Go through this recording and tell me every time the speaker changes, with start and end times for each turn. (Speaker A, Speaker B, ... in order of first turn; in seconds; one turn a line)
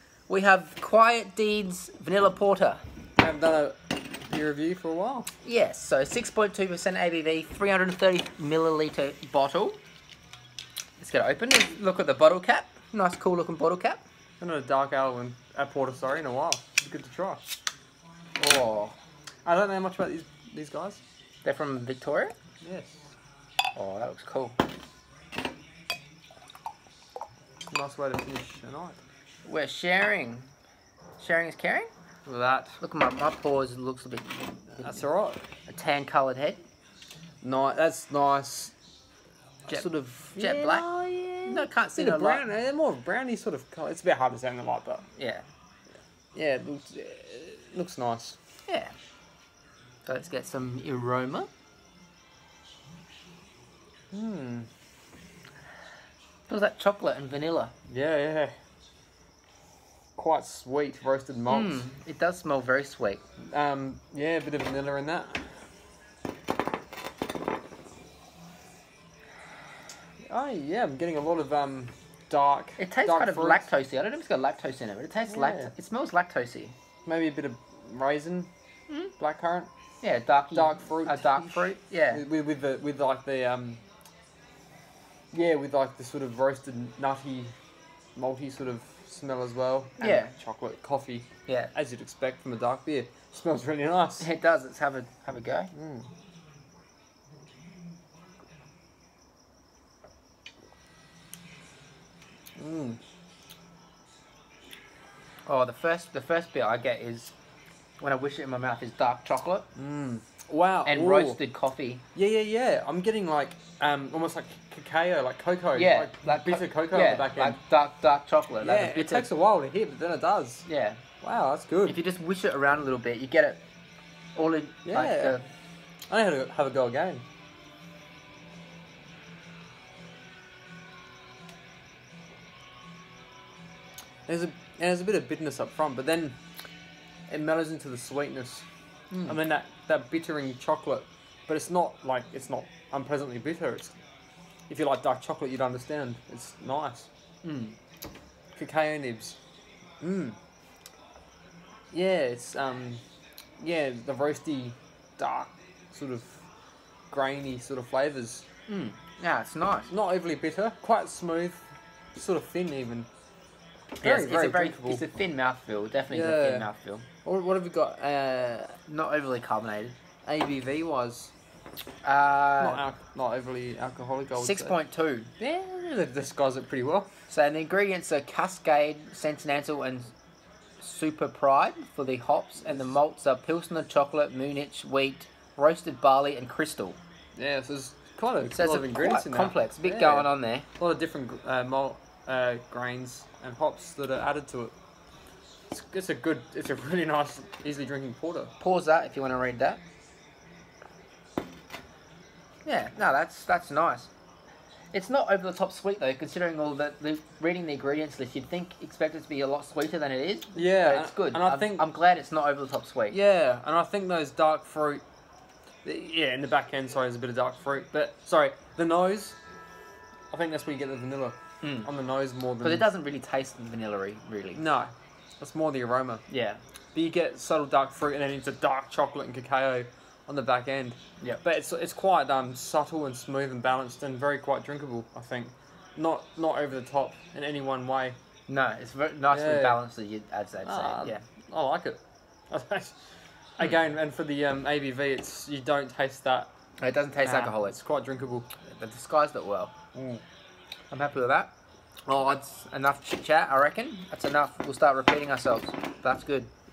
Speaker A: 0.3-2.8
Speaker B: 3.2-5.3
Speaker A: 5.4-9.8
Speaker A: 11.0-14.0
Speaker B: 14.4-17.4
Speaker A: 18.4-19.0
Speaker B: 19.4-21.0
Speaker A: 21.4-22.3
Speaker B: 22.6-23.1
Speaker A: 23.7-24.6
Speaker B: 27.7-29.0
Speaker A: 29.4-30.5
Speaker A: 31.2-31.9
Speaker B: 32.2-32.8
Speaker A: 32.8-35.0
Speaker B: 34.8-35.4
Speaker A: 35.7-36.6
Speaker B: 37.4-38.7
Speaker B: 39.7-45.0
Speaker A: 39.7-42.4
Speaker A: 45.1-45.5
Speaker B: 46.3-48.4
Speaker A: 48.7-48.9
Speaker A: 50.0-51.5
Speaker B: 54.1-54.7
Speaker A: 56.5-57.7
Speaker B: 57.9-58.5
Speaker B: 60.1-61.9
Speaker A: 61.5-63.2
Speaker B: 63.4-65.4
Speaker B: 70.3-73.7
Speaker A: 72.8-76.7
Speaker B: 75.3-75.7
Speaker B: 77.0-78.5
Speaker B: 79.2-79.7
Speaker A: 80.0-82.2
Speaker B: 80.5-83.8
Speaker B: 85.3-87.5
Speaker B: 88.2-94.3
Speaker A: 90.0-90.3
Speaker A: 91.5-91.7
Speaker A: 94.2-95.7
Speaker B: 95.7-96.1
Speaker B: 102.6-103.0
Speaker A: 105.5-107.3
Speaker A: 108.0-109.7
Speaker B: 109.8-111.4
Speaker A: 110.8-112.0
Speaker B: 112.1-117.6
Speaker A: 115.7-119.2
Speaker B: 118.6-120.7
Speaker A: 120.7-121.0
Speaker B: 121.2-122.0
Speaker A: 121.8-123.6
Speaker A: 124.3-125.4
Speaker B: 124.8-125.3
Speaker B: 126.1-127.2
Speaker B: 134.3-136.4
Speaker B: 137.3-138.7
Speaker A: 139.1-139.3
Speaker B: 139.2-144.0
Speaker B: 144.7-147.1
Speaker A: 147.4-147.8
Speaker B: 148.6-149.4
Speaker B: 150.0-150.4
Speaker B: 151.9-153.0
Speaker B: 153.6-156.4
Speaker B: 157.1-158.4
Speaker A: 158.7-159.9
Speaker B: 159.9-163.1
Speaker B: 164.0-165.0
Speaker A: 164.0-167.1
Speaker B: 166.1-166.7
Speaker B: 167.2-168.8
Speaker A: 168.9-169.9
Speaker B: 170.2-171.3
Speaker A: 172.0-172.8
Speaker B: 172.6-174.7
Speaker A: 174.4-175.3
Speaker B: 175.4-177.1
Speaker A: 177.3-180.1
Speaker A: 180.8-187.0
Speaker B: 187.4-194.7
Speaker A: 188.4-190.7
Speaker B: 195.7-198.5
Speaker A: 198.6-199.8
Speaker A: 202.6-204.1
Speaker A: 204.9-213.2
Speaker B: 210.5-211.8
Speaker B: 213.1-215.0
Speaker B: 215.8-219.4
Speaker B: 220.3-222.9
Speaker A: 221.6-221.9
Speaker A: 222.6-224.6
Speaker B: 224.5-226.2
Speaker A: 226.3-226.6
Speaker B: 226.9-238.2
Speaker A: 238.5-241.2
Speaker B: 239.3-239.8
Speaker B: 240.6-246.5
Speaker A: 246.8-247.8
Speaker B: 247.2-248.5
Speaker A: 248.6-249.7
Speaker B: 249.9-250.2
Speaker A: 250.9-251.5
Speaker B: 252.1-252.4
Speaker A: 252.3-256.5